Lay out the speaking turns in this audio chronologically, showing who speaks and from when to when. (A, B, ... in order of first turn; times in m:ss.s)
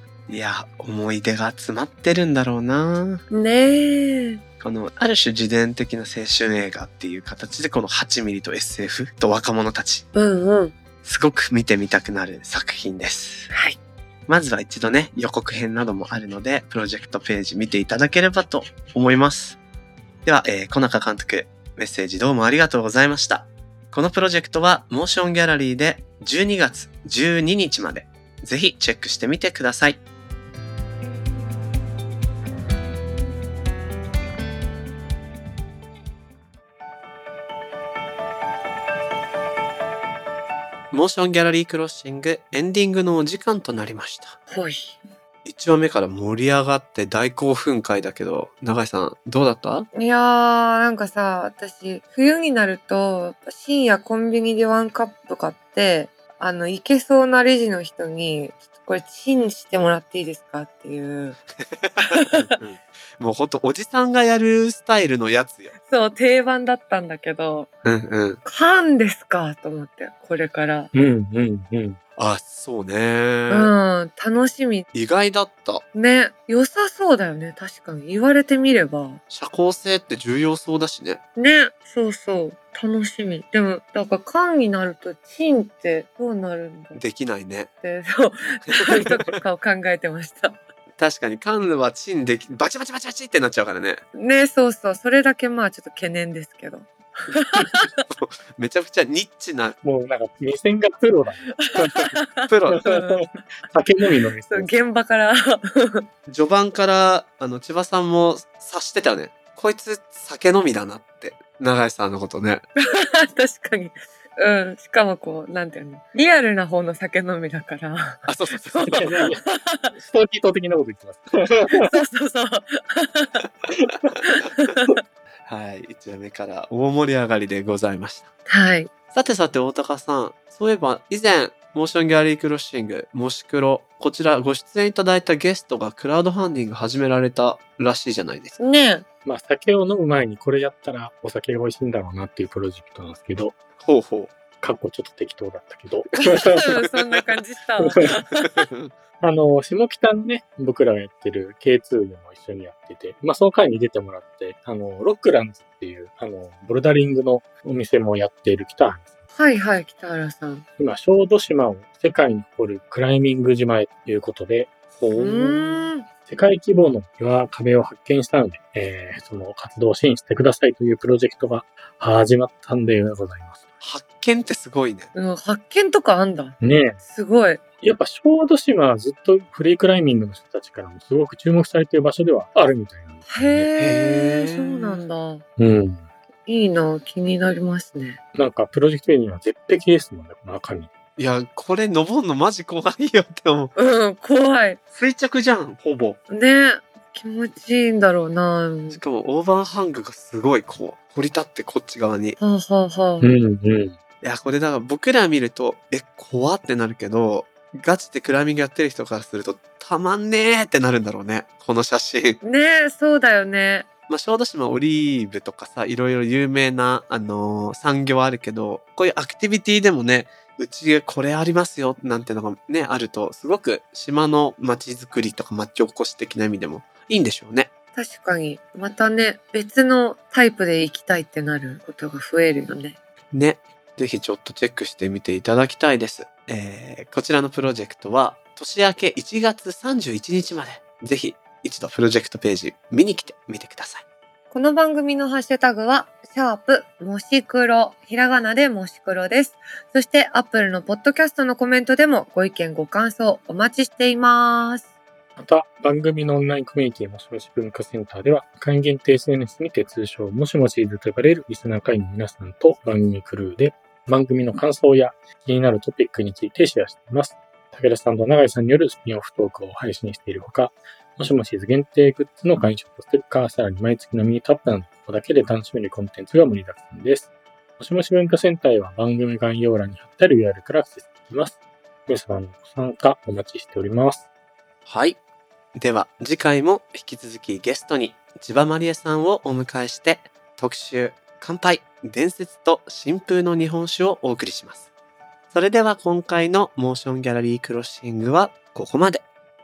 0:00.3-0:03.2 A
0:03.3-0:04.4 B
0:04.6-0:10.1 A
0:10.2-0:10.8 B
0:11.0-0:13.5 A
0:13.5-0:13.8 B
0:14.3-0:19.6 A
0:20.3-0:30.0 A
0:40.9-0:44.4 A
0:44.5-0:45.0 B
0:45.4-0:49.9 A
0:49.9-1:01.4 B
1:01.6-1:05.7 A
1:02.0-1:02.6 B
1:05.9-1:07.7 B
1:07.8-1:08.4 A
1:08.4-1:10.9 B
1:10.9-1:12.0 C
1:12.2-1:13.7 A
1:13.5-1:14.9 B
1:14.9-1:15.8 A
1:15.9-1:19.2 B
1:19.3-1:21.2 A
1:21.4-1:27.0 B
1:27.0-1:27.7 A
1:27.8-1:30.6 B
1:28.7-1:29.4 A
1:31.0-1:34.0 A
1:34.1-1:38.0 B
1:38.1-1:39.8 A
1:39.8-1:42.2 C
1:41.6-1:43.3 B
1:42.5-1:42.8 A
1:42.7-1:44.8 C
1:44.5-1:46.1 B
1:46.3-1:52.6 A
1:52.8-2:00.0 B
1:58.3-1:59.1 A
1:58.8-1:59.4 C
2:00.0-2:01.9 C
2:01.7-2:03.5 B
2:03.8-2:04.1 C
2:04.2-2:05.0 B
2:05.5-2:08.3 A
2:08.5-2:08.9 B
2:09.1-2:18.6 A
2:18.6-2:19.0 B
2:19.2-2:23.6 C
2:23.8-2:24.4 A
2:24.6-2:26.7 C
2:26.2-2:26.9 A
2:26.5-2:28.6 B
2:27.8-2:28.2 C
2:28.4-2:28.9 A
2:29.2-2:39.2 C
2:39.4-2:40.6 B
2:40.8-2:53.6 C
2:45.2-2:46.1 B
2:53.8-2:55.1 A
2:55.2-2:57.6 B
2:56.6-2:57.0 C
2:57.8-3:03.7 C
3:03.3-3:05.4 B
3:03.8-3:05.0 A
3:05.6-3:06.1 C
3:06.5-3:08.2 B
3:08.4-3:10.9 C
3:11.2-3:13.7 A
3:13.8-3:14.8 B
3:14.9-3:16.2 A
3:16.3-3:19.0 B
3:18.9-3:22.4 A
3:22.4-3:23.3 B
3:23.2-3:24.0 C
3:24.2-3:32.4 A
3:32.4-3:33.9 B
3:34.1-3:47.7 A
3:48.0-3:53.0 B
3:53.3-4:04.0 A
4:04.5-4:14.8 B
4:15.4-4:44.3 C
4:44.9-4:45.2 A
4:45.8-4:54.9 A
4:55.5-4:59.2 A